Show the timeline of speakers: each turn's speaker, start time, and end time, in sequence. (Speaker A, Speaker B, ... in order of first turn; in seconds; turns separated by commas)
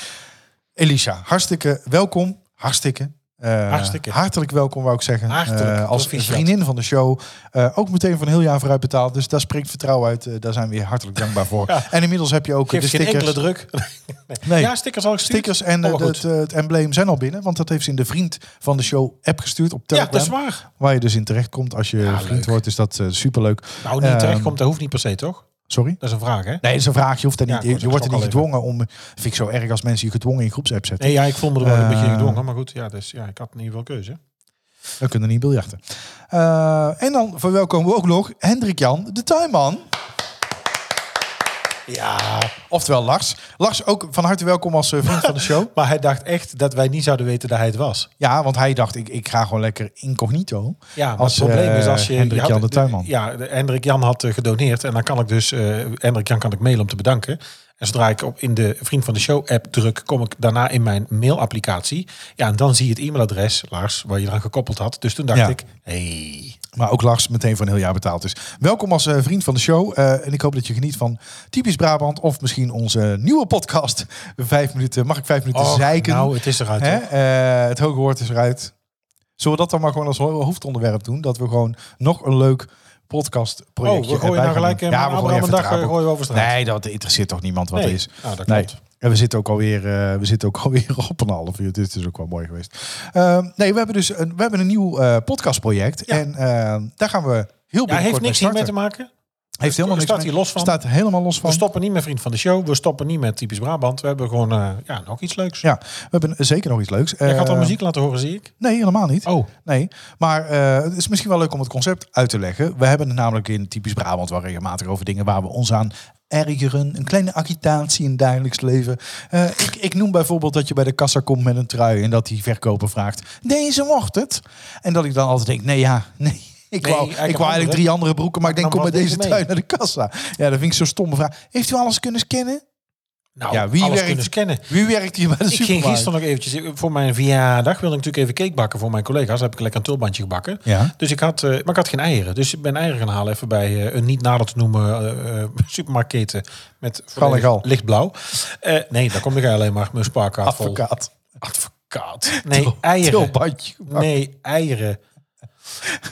Speaker A: 0.8-13.4, Speaker B: 3.7-4.2, Speaker B: 5.3-6.5, Speaker B: 11.6-11.9, Speaker B: 12.7-16.2, Speaker A: 14.4-24.6, Speaker B: 19.9-20.6, Speaker B: 22.0-22.6, Speaker B: 23.8-25.5, Speaker A: 25.7-26.0, Speaker B: 26.0-26.6, Speaker A: 26.6-32.4, Speaker B: 27.5-28.4, Speaker B: 31.0-34.2, Speaker A: 35.0-39.9, Speaker B: 41.9-42.5, Speaker A: 42.7-45.7, Speaker B: 45.1-48.1, Speaker A: 48.2-53.1, Speaker B: 51.0-66.6, Speaker A: 66.7-78.7, Speaker B: 75.5-77.0, Speaker A: 79.4-98.7, Speaker B: 83.8-86.5, Speaker B: 87.7-88.8, Speaker B: 97.9-99.1, Speaker A: 99.6-101.7, Speaker B: 99.6-100.8, Speaker B: 101.4-105.7, Speaker A: 105.6-107.8, Speaker B: 107.2-108.5, Speaker A: 108.6-132.6, Speaker B: 109.2-109.5, Speaker B: 126.8-127.9, Speaker B: 128.4-129.4, Speaker B: 133.4-134.7, Speaker A: 133.5-136.1, Speaker B: 135.5-150.8, Speaker A: 140.7-140.9, Speaker A: 147.2-147.7, Speaker A: 150.4-151.1, Speaker B: 151.4-155.0, Speaker A: 152.3-154.1